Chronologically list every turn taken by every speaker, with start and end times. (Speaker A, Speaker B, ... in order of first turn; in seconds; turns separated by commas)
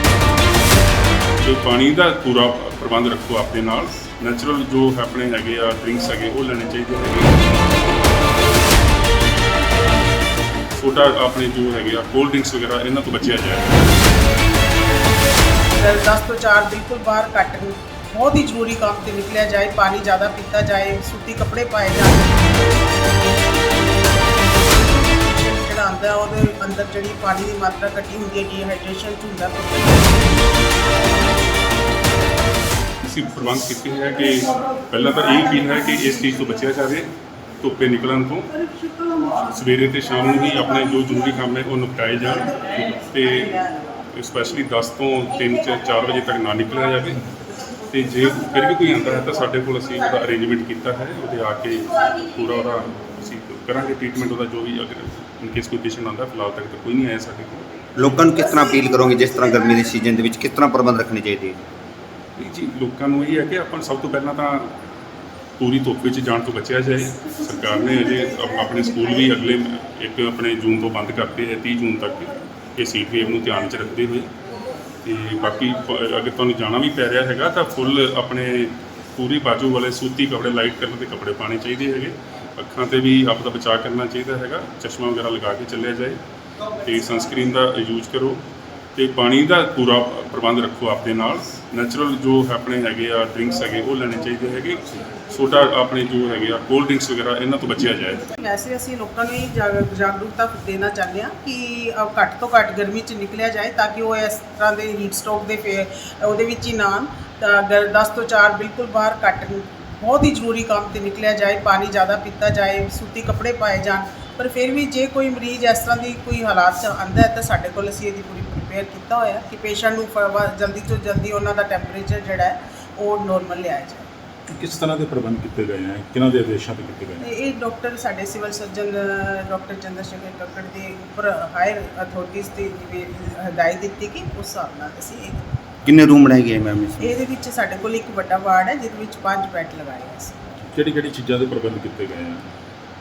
Speaker A: 1.4-7.5, Speaker A: 10.7-13.8, Speaker B: 15.8-22.6, Speaker B: 25.2-30.2, Speaker A: 33.0-37.1, Speaker A: 37.6-38.5, Speaker A: 39.4-47.3, Speaker A: 47.9-57.7, Speaker C: 58.0-61.6, Speaker A: 62.4-64.7, Speaker A: 65.6-74.3, Speaker A: 75.0-86.2, Speaker A: 86.8-88.4, Speaker A: 89.0-98.3, Speaker B: 98.3-124.1, Speaker D: 124.5-127.3, Speaker B: 127.2-135.4, Speaker C: 135.8-137.1, Speaker B: 137.0-140.3, Speaker D: 140.6-142.4